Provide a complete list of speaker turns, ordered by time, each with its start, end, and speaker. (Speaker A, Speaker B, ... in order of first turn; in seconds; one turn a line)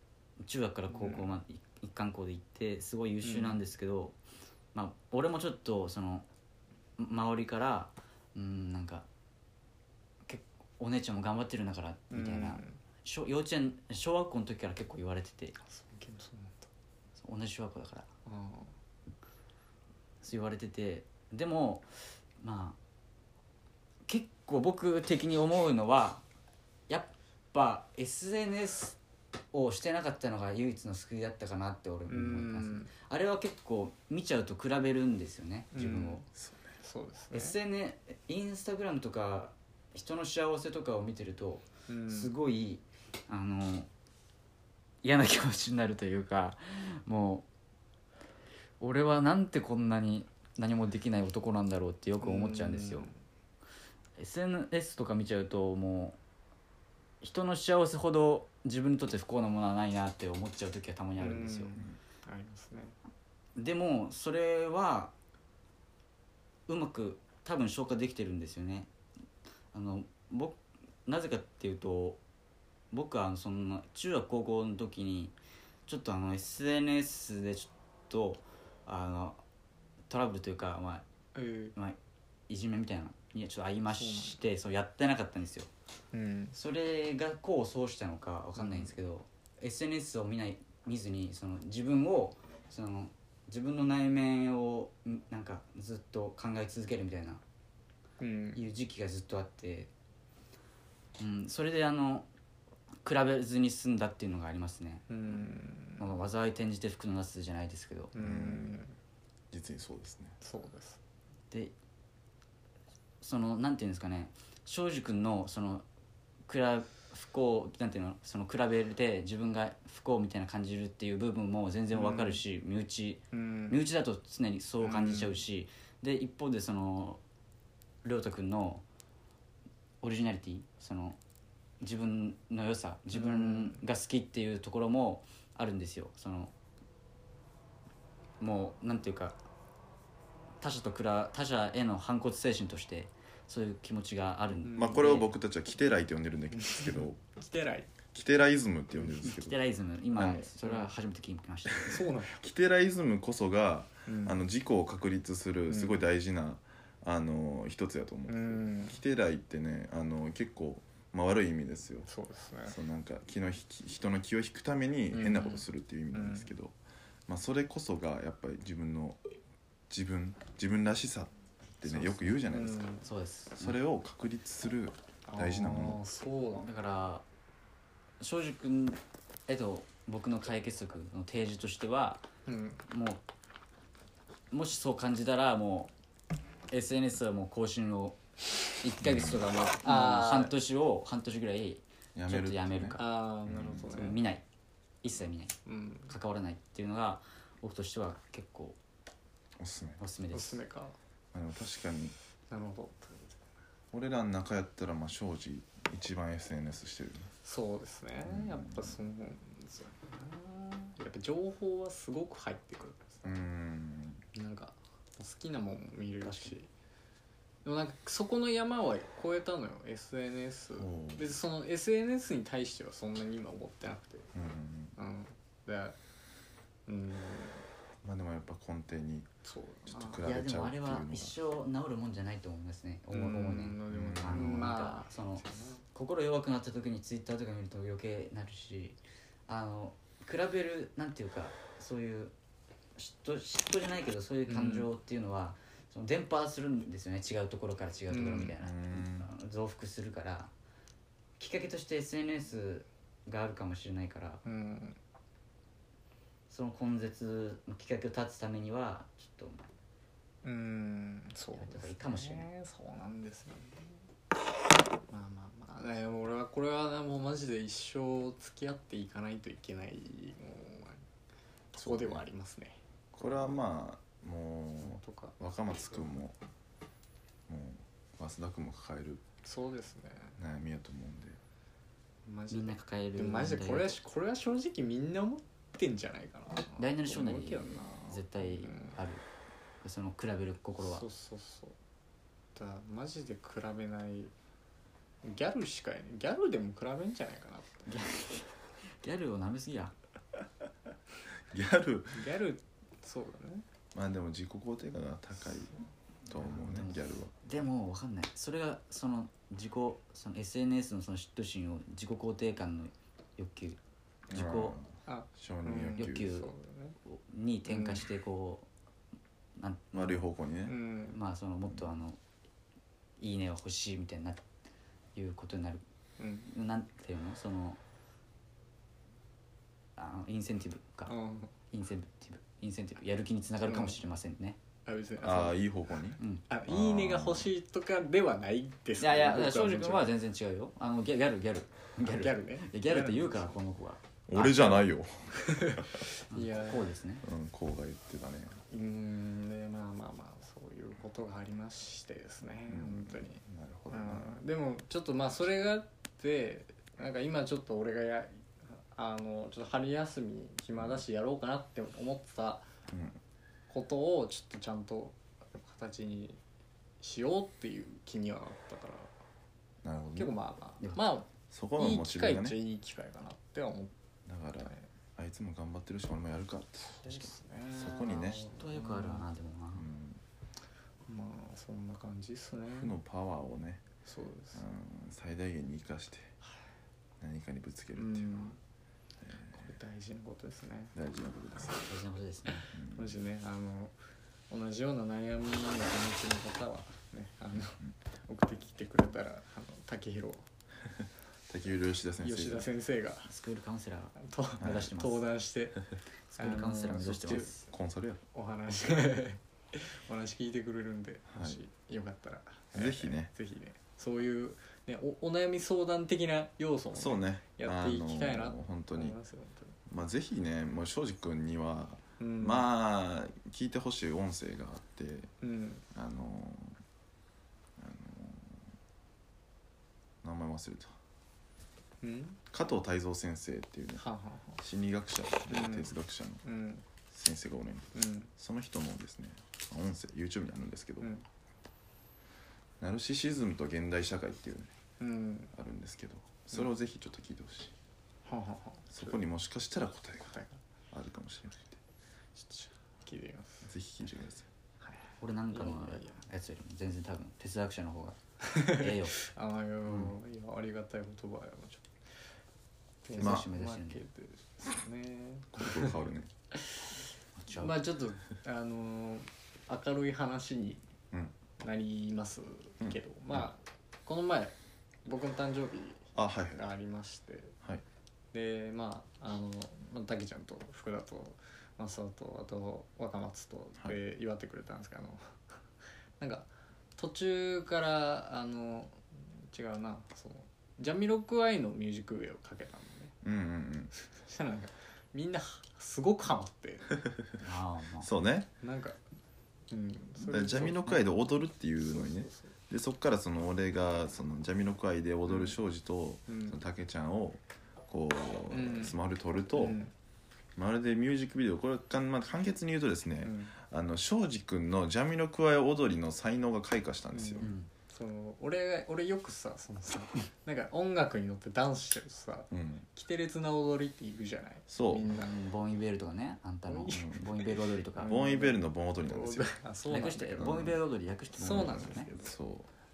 Speaker A: 0.4-4.2
Speaker B: 0.9-1.2
Speaker B: 3.2-3.6
Speaker A: 4.7-6.2
Speaker A: 7.0-9.0
Speaker A: 10.2-15.5
Speaker B: 12.1-12.8
Speaker B: 15.6-16.7
Speaker A: 17.2-18.1
Speaker B: 18.2-18.7
Speaker A: 20.2-21.9
Speaker A: 22.4-22.8
Speaker A: 24.1-26.2
Speaker A: 26.9-29.0
Speaker A: 29.5-36.2
Speaker B: 32.1-32.9
Speaker B: 35.7-36.2
Speaker C: 36.3-36.7
Speaker B: 36.8-37.6
Speaker A: 37.3-43.9
Speaker B: 41.9-42.3
Speaker A: 45.0-47.5
Speaker A: 48.8-53.1
Speaker B: 52.2-53.1
Speaker A: 54.2-56.2
Speaker A: 57.2-61.7
Speaker B: 61.2-63.0
Speaker A: 63.5-65.1
Speaker A: 66.7-68.9
Speaker A: 69.7-72.2
Speaker A: 72.9-75.3
Speaker A: 75.9-79.4
Speaker A: 80.1-81.0
Speaker B: 81.3-81.8
Speaker A: 82.5-85.7
Speaker B: 83.9-84.4
Speaker B: 86.1-86.5
Speaker A: 86.5-97.4
Speaker B: 88.5-89.0
Speaker B: 98.2-98.6
Speaker A: 98.5-99.9
Speaker A: 101.2-102.3
Speaker A: 103.0-105.1
Speaker B: 105.1-106.1
Speaker A: 106.0-108.1
Speaker B: 108.1-109.0
Speaker C: 108.2-108.7
Speaker C: 109.5-110.3
Speaker B: 110.4-111.0
Speaker A: 113.2-115.8
Speaker A: 116.5-127.2
Speaker B: 121.9-122.4
Speaker B: 123.3-123.8
Speaker B: 124.8-125.4
Speaker A: 128.0-128.8
Speaker A: 130.0-131.2
Speaker A: 131.8-136.5
Speaker B: 133.1-133.8
Speaker A: 138.4-139.4
Speaker A: 140.6-145.3
Speaker B: 144.6-145.1
Speaker C: 144.7-147.2
Speaker B: 146.5-147.9
Speaker C: 148.1-149.6
Speaker A: 149.3-152.1
Speaker C: 150.2-150.5
Speaker B: 150.6-150.9
Speaker B: 151.8-152.4
Speaker C: 152.4-162.1
Speaker B: 154.1-154.4
Speaker B: 155.7-156.0
Speaker B: 158.3-159.0
Speaker B: 162.1-162.8
Speaker C: 162.7-166.7
Speaker B: 165.1-166.5
Speaker C: 167.3-169.2
Speaker C: 169.9-172.8
Speaker A: 171.8-172.4
Speaker B: 172.5-173.1
Speaker A: 173.0-173.8
Speaker C: 173.6-176.0
Speaker B: 175.3-176.7
Speaker A: 176.6-177.2
Speaker A: 178.2-182.2
Speaker B: 182.5-182.8
Speaker A: 182.9-183.2
Speaker A: 184.5-185.9
Speaker A: 186.7-188.2
Speaker A: 188.8-193.1
Speaker C: 189.0-189.4
Speaker B: 189.8-190.5
Speaker C: 192.1-194.2
Speaker B: 192.9-194.2
Speaker A: 193.9-194.4
Speaker A: 195.0-195.6
Speaker B: 195.7-196.1
Speaker A: 196.1-198.8
Speaker C: 199.6-200.0
Speaker A: 200.0-200.6
Speaker B: 200.3-200.9
Speaker C: 201.3-202.1
Speaker B: 202.5-203.4
Speaker C: 203.9-207.3
Speaker B: 207.4-213.4
Speaker C: 208.2-209.0
Speaker C: 213.2-214.2
Speaker B: 214.3-216.7
Speaker B: 217.6-224.3
Speaker C: 220.8-221.3
Speaker C: 224.3-224.9
Speaker B: 224.9-226.0
Speaker B: 226.9-227.6
Speaker C: 228.0-229.3
Speaker B: 229.4-230.3
Speaker C: 229.9-231.3
Speaker A: 230.2-242.3
Speaker B: 233.1-235.8
Speaker C: 233.9-234.7
Speaker A: 242.9-250.5
Speaker B: 244.5-244.9
Speaker B: 248.1-248.5
Speaker C: 248.4-249.3
Speaker A: 251.4-254.4
Speaker B: 254.4-255.0
Speaker A: 256.5-259.6
Speaker B: 260.4-263.9
Speaker A: 261.6-262.5
Speaker B: 265.1-271.0
Speaker B: 271.7-272.8
Speaker C: 271.8-272.2
Speaker C: 273.1-276.4
Speaker B: 274.8-275.4
Speaker C: 277.5-279.2
Speaker B: 279.4-280.4
Speaker C: 280.4-281.4
Speaker B: 282.2-289.0
Speaker A: 282.5-284.0
Speaker A: 286.8-289.2
Speaker A: 289.8-291.0
Speaker B: 290.8-291.8
Speaker B: 292.5-294.3
Speaker B: 295.2-297.9
Speaker A: 297.9-299.9
Speaker C: 301.5-302.2
Speaker B: 302.1-303.6
Speaker C: 303.9-307.3
Speaker A: 306.4-313.8
Speaker C: 314.3-316.4
Speaker A: 314.3-314.8
Speaker B: 315.1-317.0
Speaker A: 316.0-316.5
Speaker A: 317.1-318.7
Speaker B: 317.7-318.1
Speaker A: 319.6-320.2
Speaker C: 319.9-320.7
Speaker B: 320.6-321.2
Speaker A: 321.1-322.2
Speaker A: 323.2-324.4
Speaker A: 325.1-325.8
Speaker B: 326.2-326.5
Speaker A: 326.5-327.8
Speaker A: 329.9-331.1
Speaker B: 331.1-331.5
Speaker A: 331.7-334.6
Speaker B: 333.6-334.0
Speaker B: 334.9-335.6
Speaker C: 335.2-337.5
Speaker B: 336.5-340.1
Speaker A: 339.0-344.8
Speaker B: 342.0-343.6
Speaker C: 344.3-346.0
Speaker B: 345.3-346.9
Speaker A: 346.3-347.2
Speaker C: 347.2-348.6
Speaker B: 348.7-362.7
Speaker C: 352.7-354.4
Speaker C: 362.9-363.2
Speaker B: 363.7-366.4
Speaker B: 367.0-369.1
Speaker C: 369.8-370.3
Speaker B: 370.1-373.9
Speaker C: 371.5-372.6
Speaker C: 374.2-378.4
Speaker B: 376.8-379.3
Speaker A: 378.3-379.9
Speaker C: 379.7-380.2
Speaker B: 381.1-382.9
Speaker C: 382.7-383.8
Speaker B: 384.1-384.6
Speaker C: 384.5-386.3
Speaker C: 387.2-388.5
Speaker B: 387.9-388.6
Speaker C: 389.2-389.7
Speaker B: 389.5-390.9
Speaker C: 390.9-391.8
Speaker B: 391.5-391.9
Speaker A: 391.8-392.7
Speaker B: 392.5-393.9
Speaker C: 392.7-393.2
Speaker B: 394.5-400.5
Speaker C: 401.5-402.7
Speaker B: 402.2-403.3
Speaker A: 403.3-405.3
Speaker B: 404.2-405.8
Speaker C: 404.6-404.9
Speaker A: 406.3-407.6
Speaker B: 406.4-407.7
Speaker C: 407.0-408.2
Speaker B: 408.3-419.8
Speaker C: 411.3-411.6
Speaker C: 412.7-413.3
Speaker C: 416.9-419.1
Speaker C: 419.9-425.3
Speaker B: 422.2-422.7
Speaker B: 425.4-425.8
Speaker C: 425.9-426.8
Speaker C: 427.8-428.6
Speaker C: 430.2-430.9
Speaker B: 432.0-432.4
Speaker C: 432.5-434.0
Speaker B: 434.0-434.6
Speaker C: 434.6-436.4
Speaker B: 435.5-436.8
Speaker C: 437.1-441.1
Speaker B: 437.9-438.3
Speaker C: 442.8-444.7
Speaker B: 445.0-445.5
Speaker C: 445.5-447.7
Speaker B: 448.2-449.2
Speaker C: 448.9-450.4
Speaker B: 450.3-450.6
Speaker C: 450.9-451.8
Speaker B: 452.3-453.7
Speaker C: 453.6-454.5
Speaker B: 454.8-456.2
Speaker A: 455.2-459.1
Speaker B: 458.4-461.9
Speaker B: 463.0-466.0
Speaker A: 463.1-464.0
Speaker C: 463.2-463.5
Speaker C: 465.5-466.3
Speaker B: 466.5-470.8
Speaker A: 467.4-467.8
Speaker B: 471.6-477.6
Speaker C: 476.1-476.6
Speaker B: 478.3-485.6
Speaker B: 486.2-493.1
Speaker C: 493.2-493.9
Speaker B: 493.9-496.9
Speaker A: 497.4-498.1
Speaker C: 498.0-498.5
Speaker B: 498.6-499.0
Speaker B: 499.7-501.1
Speaker C: 500.2-509.8
Speaker B: 501.8-502.5
Speaker B: 505.3-505.5
Speaker B: 506.3-506.6
Speaker B: 508.5-508.9
Speaker B: 509.5-509.9
Speaker C: 510.6-517.5
Speaker B: 513.2-513.5
Speaker B: 517.1-525.3
Speaker A: 517.4-517.7
Speaker C: 522.5-522.9
Speaker C: 524.7-525.0
Speaker A: 525.1-528.2
Speaker B: 526.7-530.6
Speaker C: 526.9-527.3
Speaker C: 528.0-529.6
Speaker A: 529.9-532.1
Speaker C: 530.4-530.8
Speaker B: 531.4-532.3
Speaker C: 531.5-532.7